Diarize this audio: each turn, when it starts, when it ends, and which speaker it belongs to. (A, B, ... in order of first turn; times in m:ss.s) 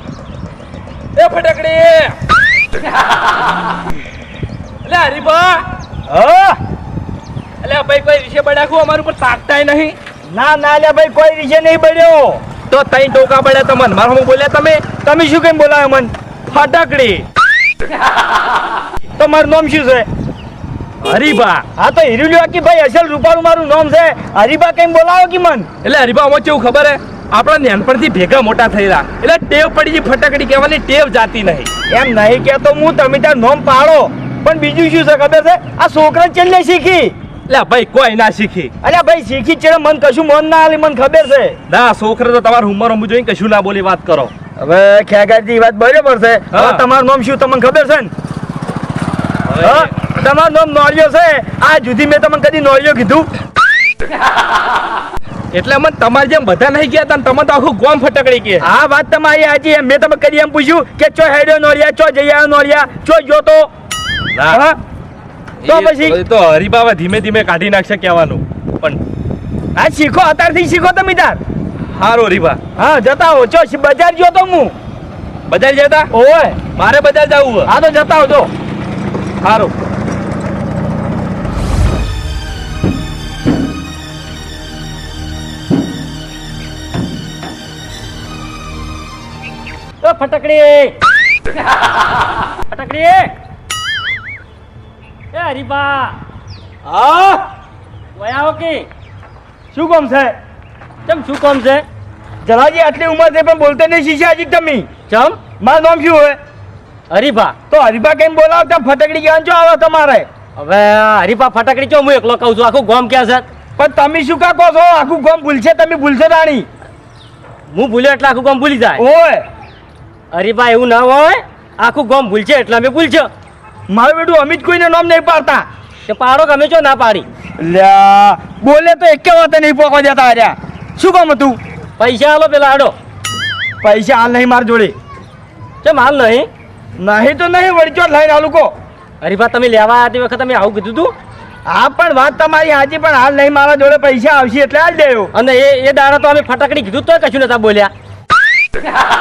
0:01.1-0:02.2 A
0:04.8-0:05.6 A
0:06.1-0:06.6 B
0:07.6-0:10.0 A
0:10.3-0:12.4 B
0:12.7-0:15.0 A
0:14.9-0:17.1 B
0:16.5-0:17.2 A
0:19.2-0:20.1 B
0:21.0-0:21.7 A
0:21.8-0:25.7 B
0:25.8-0:31.7 A
0:31.9-0:37.1 B
0:37.5-0:38.7 A
0:38.8-0:41.6 B
0:41.7-0:44.3 A
0:44.6-0:48.1 B
0:46.5-0:46.9 A
0:49.5-0:49.9 A
0:49.6-0:53.3 B
0:55.5-0:58.7 A
0:58.6-1:03.7 B
1:04.3-1:04.6 A
1:04.5-1:04.8 B
1:05.6-1:09.0 A
1:05.6-1:06.2 B
1:09.7-1:11.4 B
1:11.9-1:12.7 A
1:12.7-1:14.7 B
1:15.5-1:16.1 A
1:16.1-1:16.6 B
1:16.6-1:17.7 A
1:17.6-1:18.5 B
1:19.4-1:19.7 A
1:30.0-1:30.9 C
1:32.7-1:33.3 C
1:35.3-1:36.2 C
1:36.8-1:37.4 B
1:38.2-1:38.9 C
1:39.7-1:40.3 B
1:41.1-1:41.8 C
1:42.4-1:44.9 B
1:45.1-1:45.4 C
1:45.5-1:46.4 B
1:47.1-1:47.6 C
1:47.7-1:50.3 B
1:50.6-1:53.4 C
1:53.8-1:56.7 B
1:57.7-1:59.0 C
1:59.0-1:59.4 B
2:00.3-2:03.3 C
2:03.9-2:05.6 B
2:06.1-2:07.3 C
2:07.6-2:11.6 B
2:12.0-2:12.9 C
2:13.8-2:14.9 B
2:15.8-2:16.5 C
2:17.0-2:18.7 B
2:19.2-2:21.1 C
2:21.6-2:25.3 B
2:25.3-2:27.9 C